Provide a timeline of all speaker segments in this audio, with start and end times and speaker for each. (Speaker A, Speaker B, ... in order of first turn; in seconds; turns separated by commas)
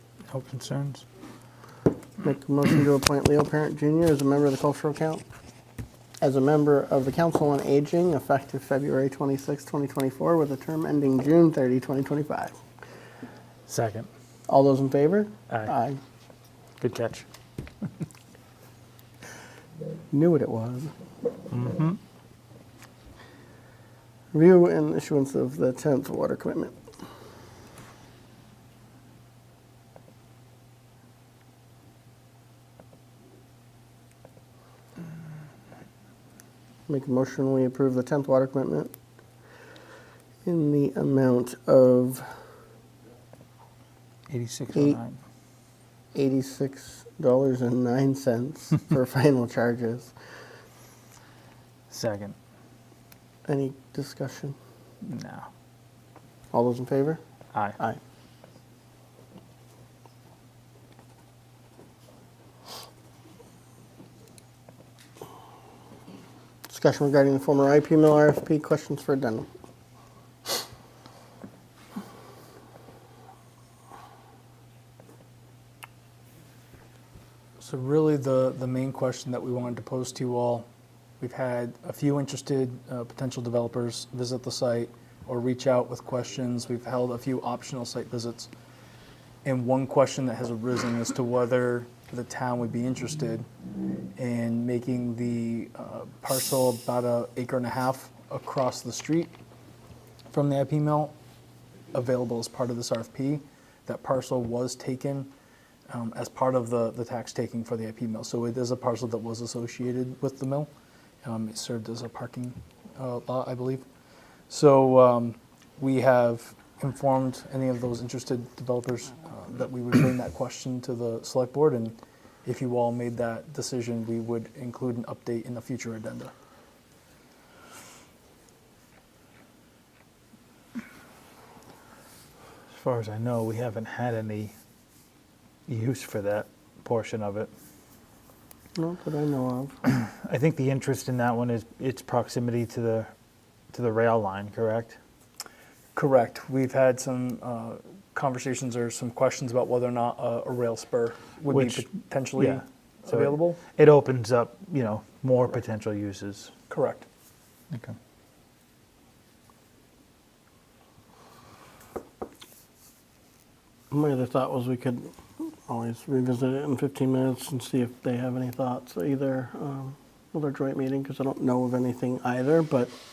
Speaker A: 0.3-1.1, Speaker B: 2.2-5.2, Speaker B: 6.2-12.6, Speaker A: 13.7-14.1, Speaker B: 14.5-16.0, Speaker A: 16.8-17.3, Speaker B: 20.1-20.9, Speaker A: 21.5-22.0, Speaker B: 24.3-26.8, Speaker B: 36.9-38.9, Speaker B: 40.4-42.3, Speaker A: 44.3-45.2, Speaker B: 44.7-45.0, Speaker B: 46.1-50.1, Speaker A: 51.9-52.4, Speaker B: 53.5-54.6, Speaker A: 55.0-55.5, Speaker B: 56.5-57.2, Speaker B: 66.7-69.5, Speaker C: 77.6-80.7, Speaker C: 81.2-88.5, Speaker C: 89.5-93.5, Speaker C: 94.2-99.3, Speaker C: 100.3-101.1, Speaker C: 101.9-105.3, Speaker C: 105.9-110.7, Speaker C: 111.2-113.8, Speaker C: 114.5-126.3, Speaker A: 132.7-134.6, Speaker A: 135.7-137.5, Speaker B: 138.8-139.8, Speaker A: 139.9-143.1, Speaker A: 143.7-145.0, Speaker C: 145.9-153.6, Speaker A: 151.5-156.5, Speaker C: 156.7-157.1, Speaker B: 163.9-172.9